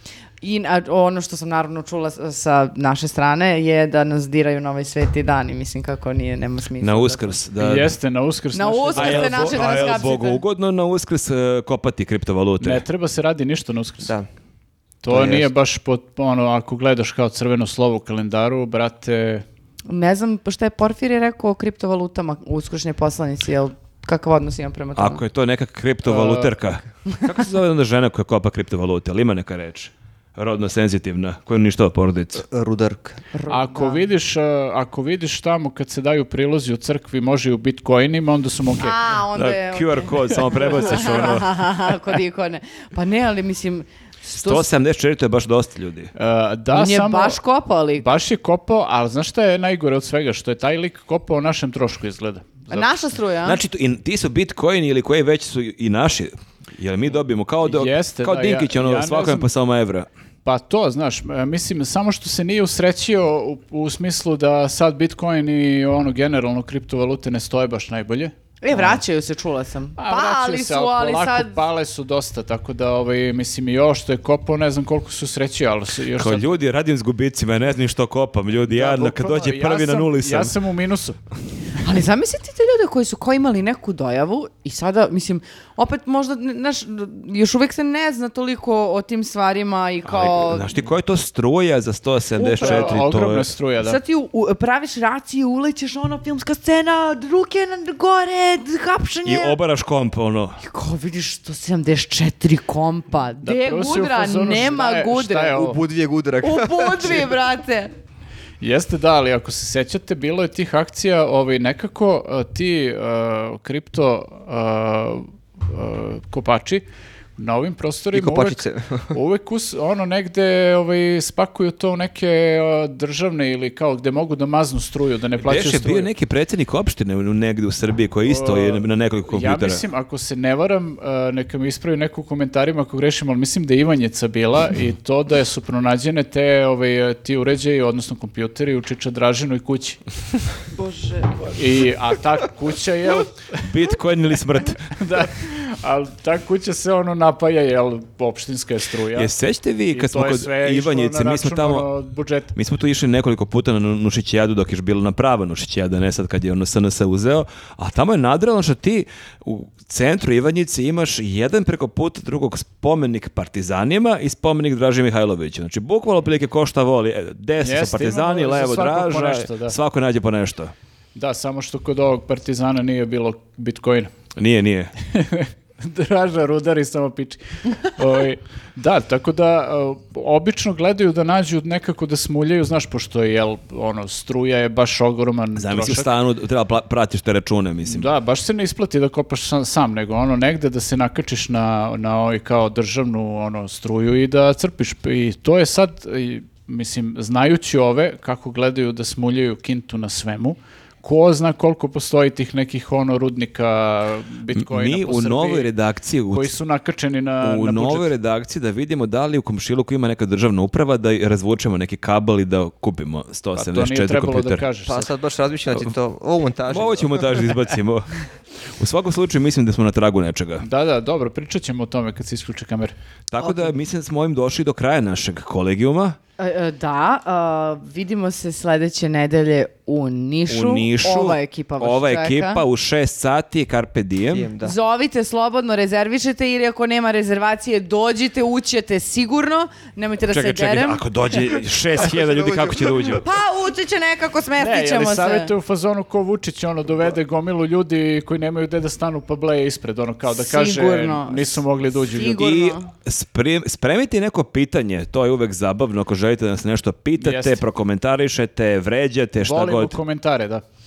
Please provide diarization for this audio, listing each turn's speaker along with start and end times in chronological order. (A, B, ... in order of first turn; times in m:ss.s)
0:00.4-0:07.4 A
0:06.8-0:08.0 B
0:07.6-0:10.1 C
0:08.5-0:10.4 A
0:09.0-0:12.8 B
0:12.6-0:14.1 C
0:15.0-0:19.4 C
0:15.1-0:15.5 D
0:19.9-0:25.2 A
0:25.0-0:32.4 B
0:26.1-0:26.5 C
0:32.4-0:33.2 D
0:33.3-0:34.1 A
0:33.5-0:39.1 C
0:38.8-0:44.7 A
0:39.4-0:41.6 B
0:40.6-0:41.0 C
0:44.3-0:46.1 B
0:46.2-0:47.4 C
0:46.7-0:48.1 A
0:48.0-0:53.2 C
0:52.7-0:53.6 A
0:53.4-1:00.1 B
0:57.6-0:59.5 C
1:00.4-1:09.0 C
1:08.6-1:11.6 A
1:10.0-1:16.5 C
1:16.2-1:20.5 B
1:18.7-1:21.2 C
1:21.8-1:30.8 A
1:30.0-1:33.5 B
1:32.4-1:33.0 A
1:32.6-1:34.0 C
1:33.8-1:39.6 A
1:39.2-1:40.6 B
1:40.6-1:45.8 A
1:43.4-1:45.8 C
1:45.6-1:47.3 D
1:46.4-1:47.9 A
1:48.6-1:56.8 C
1:57.4-2:06.1 C
1:58.1-1:59.2 D
2:05.4-2:09.8 B
2:08.2-2:20.0 C
2:21.5-2:23.7 C
2:23.6-2:24.9 B
2:24.9-2:29.3 C
2:29.2-2:31.9 B
2:29.9-2:32.5 C
2:32.6-2:50.7 B
2:47.6-2:49.8 C
2:51.2-2:54.1 C
2:54.4-2:54.9 B
2:55.0-3:06.1 C
3:05.6-3:08.1 B
3:07.8-3:25.7 C
3:24.6-3:26.5 B
3:26.3-3:28.1 C
3:27.4-3:34.6 B
3:33.6-3:35.1 C
3:34.9-3:37.4 D
3:36.7-3:40.6 B
3:40.6-3:42.9 C
3:43.3-3:46.2 B
3:46.4-3:52.6 A
3:50.5-3:54.5 B
3:54.3-3:54.8 D
3:54.6-4:01.0 A
4:00.3-4:03.2 B
4:01.9-4:03.2 D
4:03.2-4:05.5 A
4:04.6-4:12.5 C
4:10.3-4:12.9 A
4:12.4-4:20.0 B
4:17.2-4:17.6 C
4:19.4-4:20.6 C